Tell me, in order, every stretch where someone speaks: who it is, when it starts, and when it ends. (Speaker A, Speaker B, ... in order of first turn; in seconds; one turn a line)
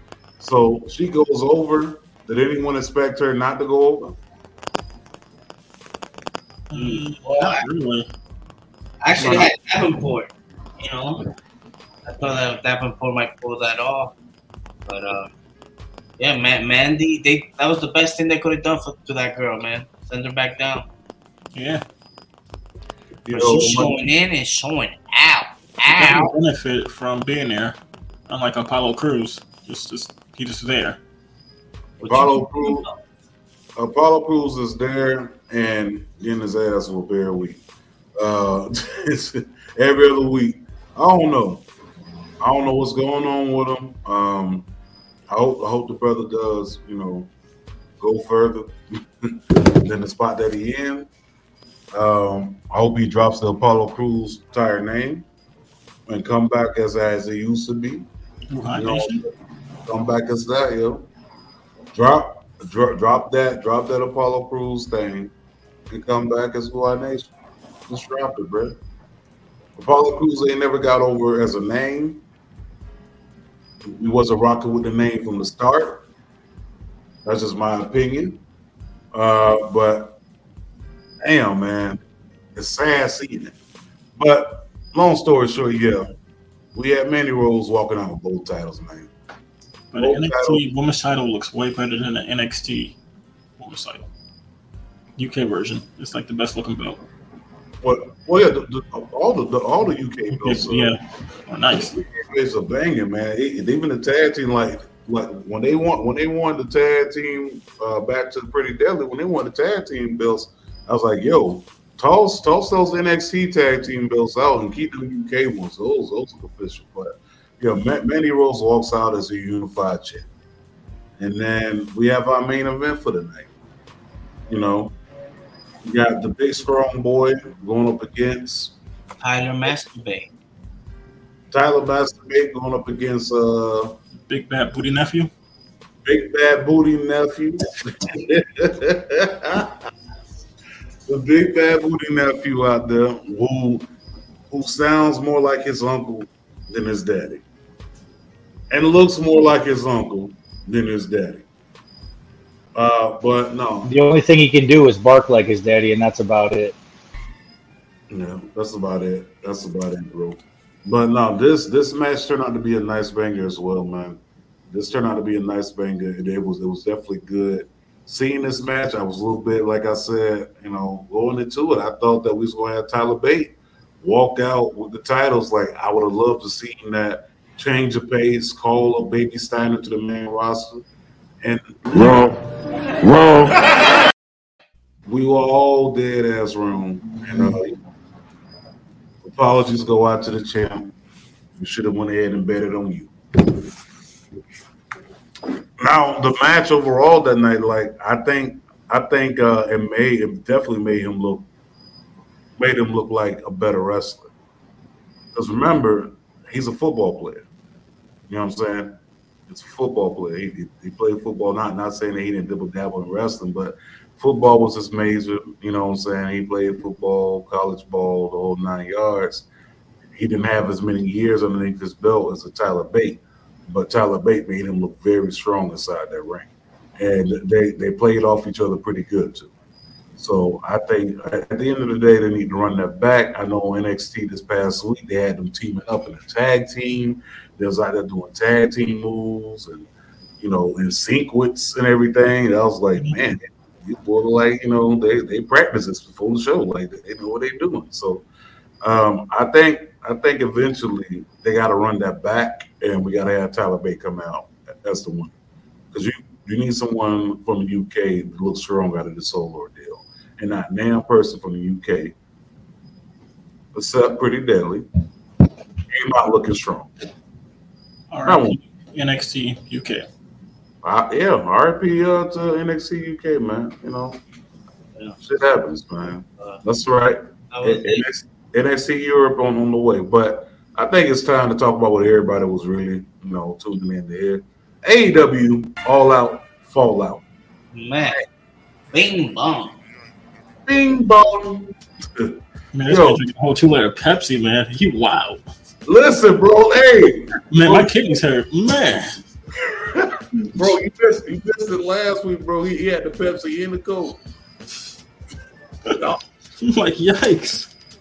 Speaker A: 0.4-4.2
Speaker B: 6.7-8.1
Speaker C: 6.7-7.6
Speaker C: 9.0-11.2
Speaker B: 9.2-9.5
Speaker C: 12.1-14.1
Speaker C: 14.9-15.3
Speaker C: 16.2-20.9
Speaker B: 21.5-21.8
Speaker A: 23.2-24.0
Speaker C: 23.3-26.3
Speaker B: 25.9-31.0
Speaker C: 32.0-33.0
Speaker A: 32.0-32.9
Speaker A: 33.8-37.6
Speaker A: 38.2-41.6
Speaker A: 42.4-44.7
Speaker A: 45.3-47.3
Speaker A: 48.0-51.1
Speaker A: 51.9-55.2
Speaker A: 56.1-58.1
Speaker B: 58.5-59.2
Speaker A: 58.7-59.3
Speaker A: 59.9-61.1
Speaker A: 61.9-65.3
Speaker A: 65.9-67.3
Speaker A: 67.9-68.8
Speaker A: 69.8-72.2
Speaker A: 73.8-76.0
Speaker A: 77.2-78.4
Speaker A: 79.1-80.2
Speaker A: 81.2-82.0
Speaker A: 82.5-83.5
Speaker A: 84.2-86.1
Speaker A: 86.7-89.1
Speaker B: 89.9-93.0
Speaker A: 90.0-90.6
Speaker B: 93.6-94.0
Speaker B: 95.2-97.0
Speaker A: 97.8-100.9
Speaker B: 100.3-101.9
Speaker A: 101.9-120.3
Speaker A: 121.2-123.5
Speaker A: 124.5-124.9
Speaker A: 125.8-128.8
Speaker C: 129.2-130.3
Speaker A: 131.5-134.0
Speaker B: 134.3-135.3
Speaker A: 136.0-139.8
Speaker A: 141.1-143.9
Speaker A: 144.5-147.4
Speaker A: 148.7-151.4
Speaker A: 152.7-153.9
Speaker D: 153.8-156.8
Speaker A: 158.1-180.8
Speaker A: 181.4-182.3
Speaker A: 185.1-187.8
Speaker A: 189.2-190.9
Speaker A: 191.6-193.1
Speaker A: 195.8-201.5
Speaker A: 202.6-204.3
Speaker A: 205.3-207.4
Speaker A: 208.3-209.0
Speaker A: 209.5-219.5
Speaker A: 220.1-229.5
Speaker A: 230.2-239.9
Speaker A: 240.4-248.2
Speaker A: 248.8-255.3
Speaker A: 255.9-262.1
Speaker A: 263.7-264.9
Speaker A: 265.9-266.9
Speaker B: 268.1-270.1
Speaker A: 268.2-268.6
Speaker A: 270.8-274.2
Speaker A: 275.2-287.2
Speaker C: 277.5-278.0
Speaker C: 287.7-288.2
Speaker C: 288.9-289.8
Speaker A: 290.6-293.2
Speaker B: 292.7-295.5
Speaker A: 295.8-298.1
Speaker B: 297.5-299.1
Speaker A: 299.6-304.2
Speaker B: 300.4-300.7
Speaker B: 306.6-307.7